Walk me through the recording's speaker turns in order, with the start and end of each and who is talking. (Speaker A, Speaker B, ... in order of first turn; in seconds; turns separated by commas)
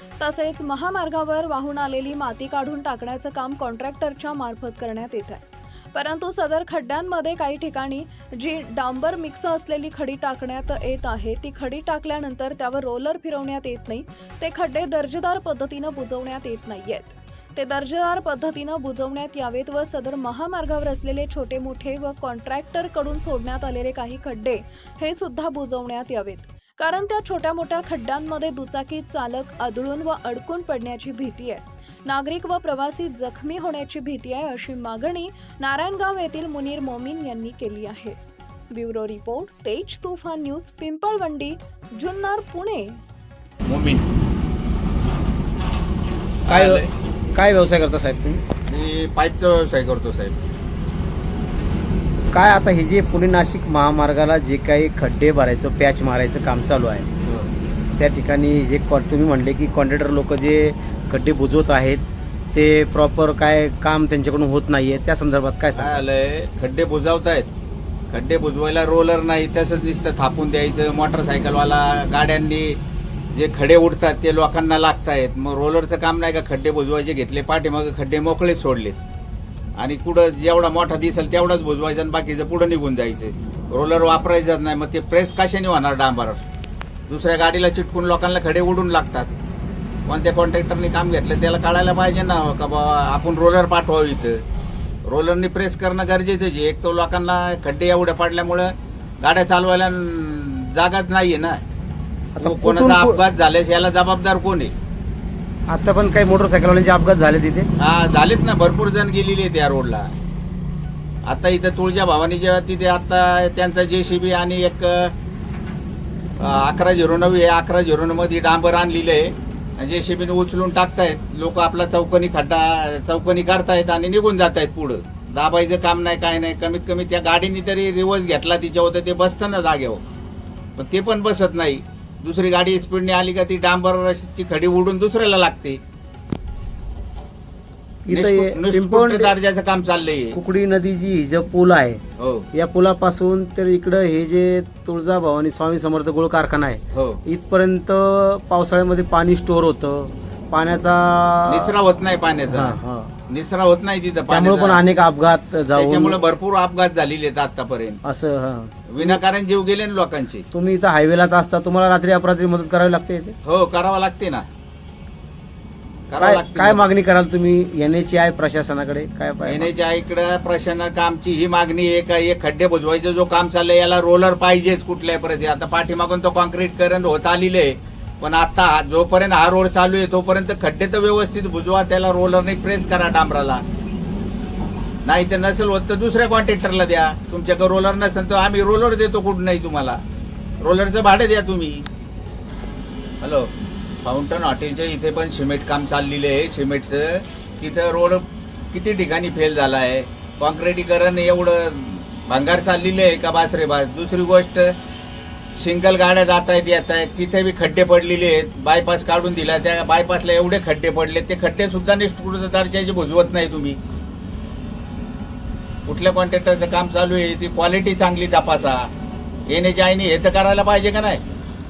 Speaker A: 0.2-38.2, Speaker A: 38.7-43.0, Speaker B: 43.7-44.1, Speaker C: 46.5-46.8, Speaker B: 46.5-46.9, Speaker C: 47.4-48.4, Speaker B: 48.7-50.4, Speaker C: 52.3-57.1, Speaker B: 57.2-57.5, Speaker C: 58.0-62.0, Speaker C: 62.5-66.0, Speaker B: 65.8-67.5, Speaker B: 68.1-72.8, Speaker B: 73.3-79.0, Speaker B: 79.8-86.4, Speaker B: 87.1-89.3, Speaker B: 90.1-94.4, Speaker B: 95.0-101.6, Speaker C: 102.4-103.2, Speaker B: 102.4-104.7, Speaker C: 105.7-107.7, Speaker B: 107.8-110.1, Speaker B: 111.3-115.1, Speaker B: 116.4-130.0, Speaker B: 130.8-135.8, Speaker C: 138.1-139.3, Speaker B: 138.1-140.4, Speaker C: 140.3-142.0, Speaker B: 142.2-142.5, Speaker C: 142.5-151.7, Speaker B: 146.9-147.2, Speaker B: 151.5-154.8, Speaker C: 152.5-153.1, Speaker C: 154.3-156.2, Speaker B: 155.8-158.0, Speaker C: 158.0-159.2, Speaker B: 158.9-160.4, Speaker C: 160.5-163.4, Speaker B: 163.4-164.5, Speaker B: 166.1-166.8, Speaker C: 166.2-169.7, Speaker B: 169.4-183.6, Speaker B: 185.1-190.0, Speaker B: 190.6-191.9, Speaker B: 193.2-193.5, Speaker B: 194.0-204.8, Speaker B: 205.6-213.8, Speaker B: 215.9-218.9, Speaker B: 219.5-221.2